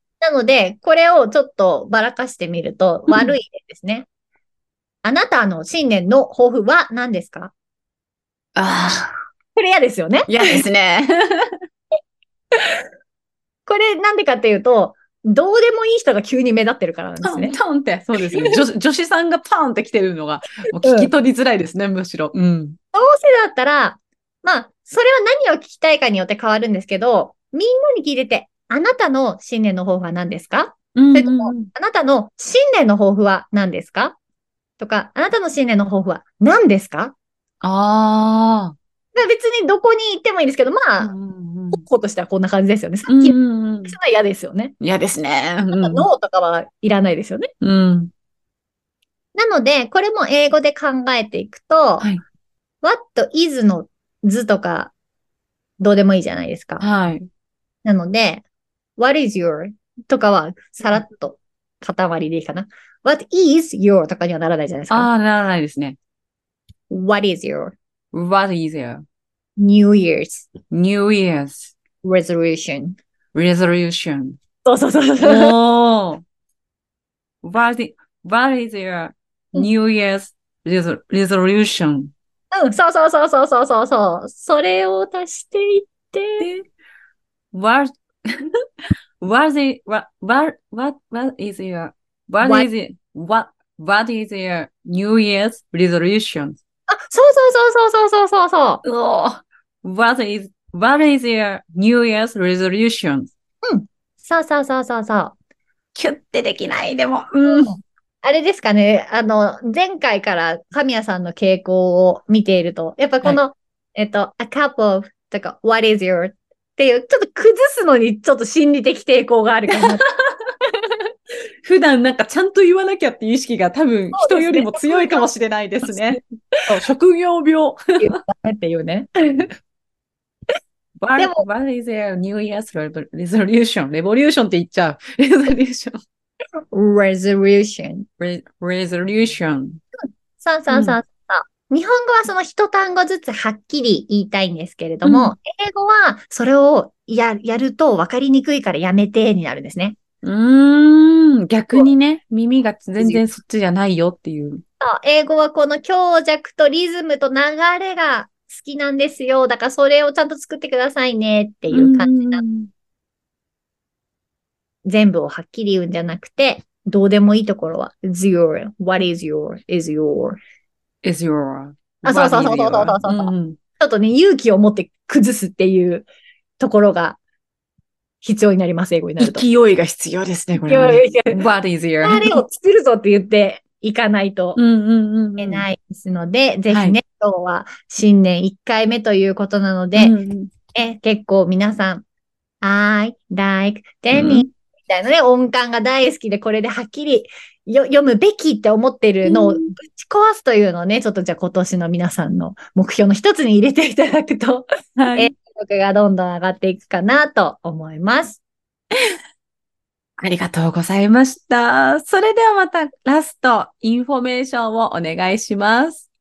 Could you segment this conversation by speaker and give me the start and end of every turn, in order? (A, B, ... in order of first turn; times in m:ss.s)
0:00.2-0:04.1 A
0:03.1-0:03.3 B
0:05.0-0:07.5 A
0:08.6-0:09.1 B
0:09.5-0:10.6 A
0:10.3-0:11.5 B
0:12.6-0:12.8 A
0:13.7-0:17.6 A
0:17.2-0:22.8 B
0:20.8-0:21.1 A
0:22.9-0:34.2 A
0:30.9-0:31.7 B
0:34.8-0:37.1 A
0:37.6-0:38.7 B
0:39.1-0:41.1 A
0:41.0-0:41.8 B
0:41.7-0:44.7 A
0:43.1-0:44.0 B
0:44.8-0:46.1 B
0:45.7-0:47.5 A
0:47.6-0:48.1 B
0:49.3-0:52.1 A
0:52.8-0:54.9 A
0:55.8-0:56.8 A
0:56.8-0:57.3 B
0:57.8-0:58.4 A
0:59.0-1:05.1 A
1:04.9-1:06.0 B
1:06.9-1:07.8 A
1:08.1-1:09.0 B
1:09.6-1:10.5 A
1:10.7-1:11.7 B
1:12.0-1:13.0 A
1:13.3-1:14.4 B
1:14.6-1:15.5 A
1:15.2-1:16.2 B
1:17.4-1:22.1 B
1:22.5-1:26.5 A
1:26.4-1:26.6 B
1:27.5-1:28.4 B
1:29.2-1:36.6 B
1:32.4-1:32.7 A
1:36.9-1:38.8 A
1:38.8-1:43.3 B
1:43.6-1:45.3 A
1:45.9-1:47.7 B
1:47.4-2:00.0 A
1:59.7-2:00.5 B
2:01.6-2:08.2 B
2:04.1-2:05.3 A
2:05.8-2:06.8 A
2:08.0-2:09.5 A
2:11.0-2:16.0 B
2:11.2-2:11.4 A
2:16.7-2:18.1 A
2:18.2-2:19.8 B
2:20.0-2:30.0 A
2:20.7-2:21.0 B
2:25.0-2:25.3 B
2:30.2-2:34.6 B
2:34.8-2:42.4 A
2:41.7-2:42.7 B
2:44.8-2:50.4 A
2:51.0-2:53.6 B
2:52.0-2:56.1 A
2:56.6-2:57.2 A
2:58.2-2:59.4 A
2:59.2-3:02.4 B
3:00.6-3:01.4 A
3:02.0-3:04.6 A
3:04.6-3:05.7 B
3:05.4-3:10.1 A
3:06.7-3:07.0 B
3:10.0-3:10.5 B
3:10.7-3:12.0 A
3:12.6-3:28.4 A
3:14.1-3:14.5 B
3:19.2-3:19.7 B
3:25.0-3:25.3 B
3:30.2-3:36.1 B